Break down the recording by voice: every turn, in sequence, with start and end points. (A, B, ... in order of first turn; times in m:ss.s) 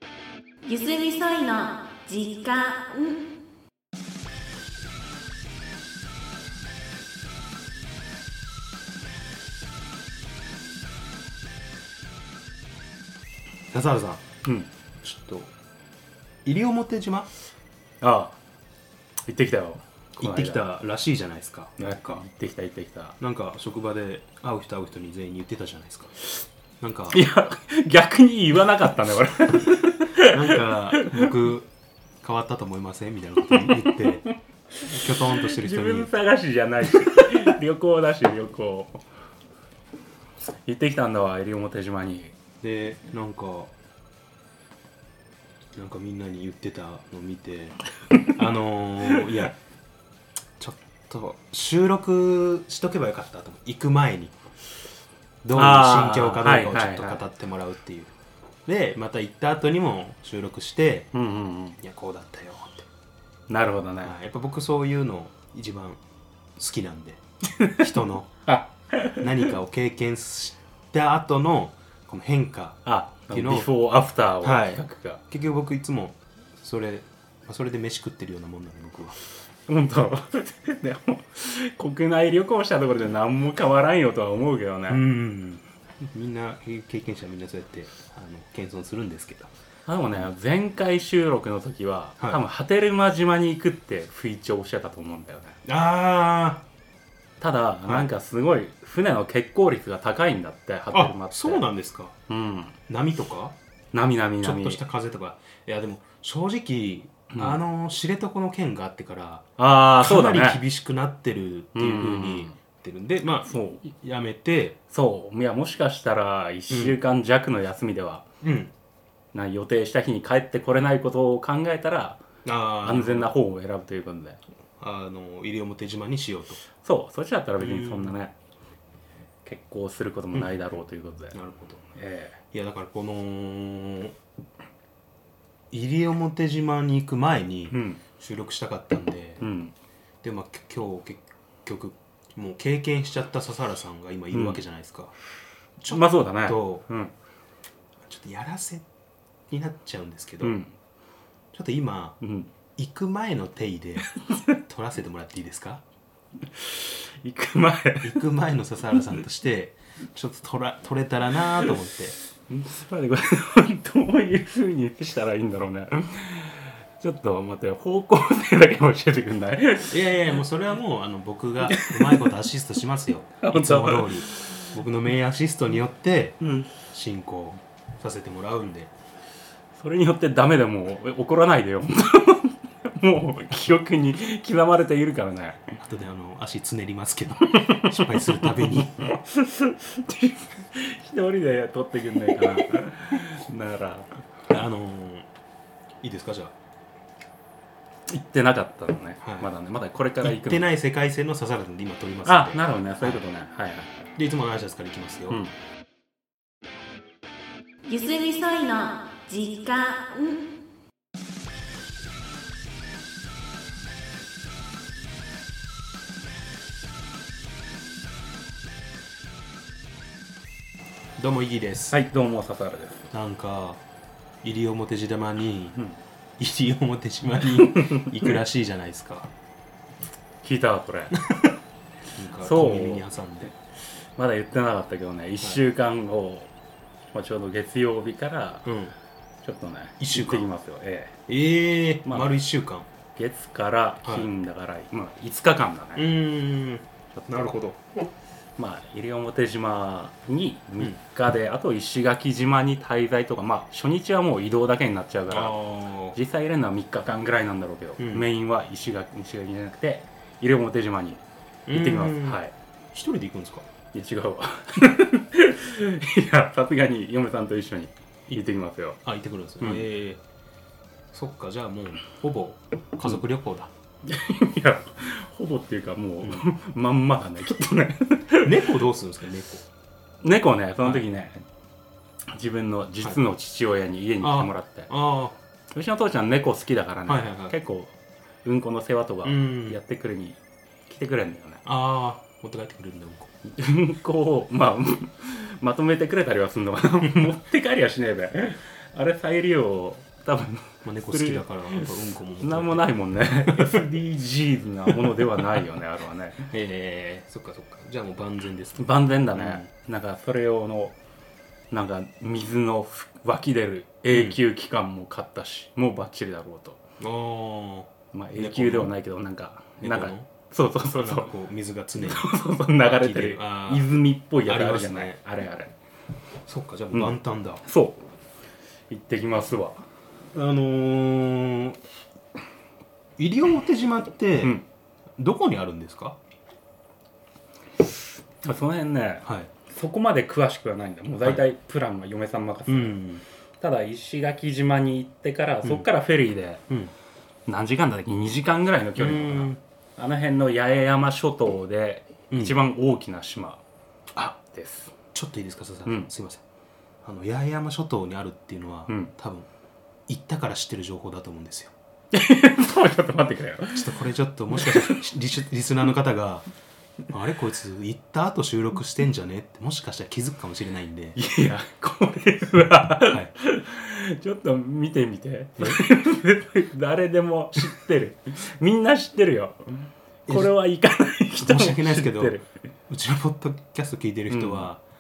0:00.6-0:03.4 A
0:13.7-0:14.2 B
0:15.0-0:15.5 B
0:16.4-0:17.3 B
0:18.0-0:18.4 C
0:19.3-0:20.6 C
0:20.2-0:22.2 B
0:21.8-0:23.2 C
0:23.2-0:26.1 B
0:26.8-0:27.2 B
0:27.1-0:31.3 C
0:30.2-0:31.7 B
0:32.2-0:34.2 B
0:33.6-0:39.0 C
0:34.9-0:36.1 B
0:40.7-0:42.3 C
0:42.6-0:43.7 B
0:45.8-0:47.8 B
0:48.1-0:48.4 C
0:48.3-0:49.6 B
0:50.6-0:54.4 B
0:55.4-0:58.1 B
0:55.5-0:57.2 C
0:58.7-1:01.1 B
1:01.1-1:01.8 C
1:01.8-1:02.9 B
1:03.5-1:04.2 C
1:04.0-1:06.0 B
1:06.6-1:08.3 B
1:08.4-1:09.3 C
1:09.2-1:13.7 B
1:12.9-1:15.2 C
1:14.4-1:19.2 B
1:19.7-1:25.0 C
1:24.9-1:29.5 B
1:29.9-1:35.6 C
1:35.6-1:36.6 B
1:37.4-1:41.6 C
1:40.9-1:42.2 B
1:42.3-1:42.8 C
1:42.9-1:43.6 B
1:43.9-1:44.8 C
1:44.4-1:49.5 B
1:47.3-1:47.6 C
1:49.6-1:50.6 C
1:50.0-1:54.8 B
1:51.8-1:52.6 C
1:53.5-1:53.8 C
1:54.9-1:58.2 C
1:56.7-1:57.0 B
1:58.4-1:58.7 B
1:59.3-2:02.2 C
2:02.4-2:03.4 B
2:02.8-2:04.4 C
2:04.8-2:06.6 B
2:06.8-2:08.3 C
2:07.6-2:08.1 B
2:09.4-2:11.4 C
2:11.3-2:11.8 B
2:12.0-2:12.4 C
2:12.5-2:14.2 B
2:15.7-2:19.4 B
2:17.7-2:18.0 C
2:19.4-2:19.7 C
2:20.2-2:25.2 B
2:24.3-2:24.6 C
2:25.8-2:26.9 B
2:25.9-2:27.1 C
2:28.0-2:28.9 B
2:29.5-2:30.6 B
2:30.4-2:30.7 C
2:31.5-2:32.2 B
2:32.2-2:32.5 C
2:32.8-2:34.1 B
2:34.3-2:34.6 C
2:34.7-2:35.8 B
2:36.5-2:38.2 C
2:38.0-2:42.2 B
2:42.5-2:50.3 C
2:49.9-2:58.9 B
2:51.7-2:52.3 C
2:53.4-2:54.7 C
2:59.8-3:05.8 C
3:05.8-3:09.1 B
3:07.6-3:14.1 C
3:14.5-3:15.3 B
3:16.0-3:16.5 B
3:18.1-3:20.7 C
3:19.2-3:19.5 B
3:20.2-3:23.2 B
3:22.2-3:24.0 C
3:24.2-3:25.4 B
3:27.9-3:30.6 A
3:41.2-3:42.0 B
3:41.9-3:43.1 C
3:43.1-3:43.8 B
3:44.4-3:45.8 B
3:46.4-3:49.3 B
3:47.7-3:48.2 C
3:50.4-3:51.2 C
3:52.2-3:53.5 B
3:52.4-3:53.1 C
3:54.2-3:56.5 C
3:57.1-3:58.7 C
3:58.6-3:58.9 B
3:59.4-4:01.2 C
4:00.0-4:00.5 B
4:01.3-4:02.9 B
4:02.0-4:02.3 C
4:03.2-4:06.1 C
4:04.0-4:04.3 B
4:06.0-4:07.8 B
4:07.2-4:07.5 C
4:08.6-4:21.2 C
4:15.3-4:16.2 B
4:18.0-4:18.3 B
4:21.7-4:22.4 B
4:21.7-4:22.5 C
4:22.9-4:23.7 B
4:23.9-4:29.0 C
4:29.0-4:30.2 B
4:31.1-4:33.7 B
4:34.1-4:38.6 C
4:38.4-4:39.6 B
4:40.2-4:41.4 C
4:42.3-4:44.9 C
4:44.2-4:45.4 B
4:45.7-4:47.9 C
4:47.1-4:47.6 B
4:48.4-4:51.6 C
4:49.2-4:49.8 B
4:51.6-4:53.3 B
4:53.5-5:06.5 C
5:00.8-5:04.0 B
5:05.0-5:05.6 B
5:06.5-5:09.7 B
5:08.8-5:11.0 C
5:11.7-5:16.8 C
5:14.1-5:14.4 B
5:17.0-5:18.9 B
5:18.1-5:21.3 C
5:19.8-5:20.3 B
5:21.0-5:23.9 B
5:22.0-5:25.7 C
5:24.4-5:25.2 B
5:26.5-5:27.6 B
5:26.9-5:28.0 C
5:28.9-5:29.8 C
5:30.3-5:31.8 B
5:33.2-5:34.6 B
5:35.2-5:36.2 B
5:38.4-5:43.0 C
5:39.2-5:39.5 B
5:42.7-5:43.2 B
5:43.6-5:46.6 C
5:47.5-5:53.6 C
5:49.0-5:49.6 B
5:52.3-5:52.6 B
5:54.4-5:54.9 C
5:55.1-5:56.4 B
5:57.0-5:59.5 B
6:00.1-6:01.7 B
6:02.1-6:05.0 C
6:03.7-6:06.5 B
6:07.1-6:11.2 B
6:11.2-6:22.5 C
6:13.1-6:13.3 B
6:20.3-6:20.6 B
6:21.4-6:22.4 B
6:22.9-6:24.8 B
6:24.3-6:24.7 C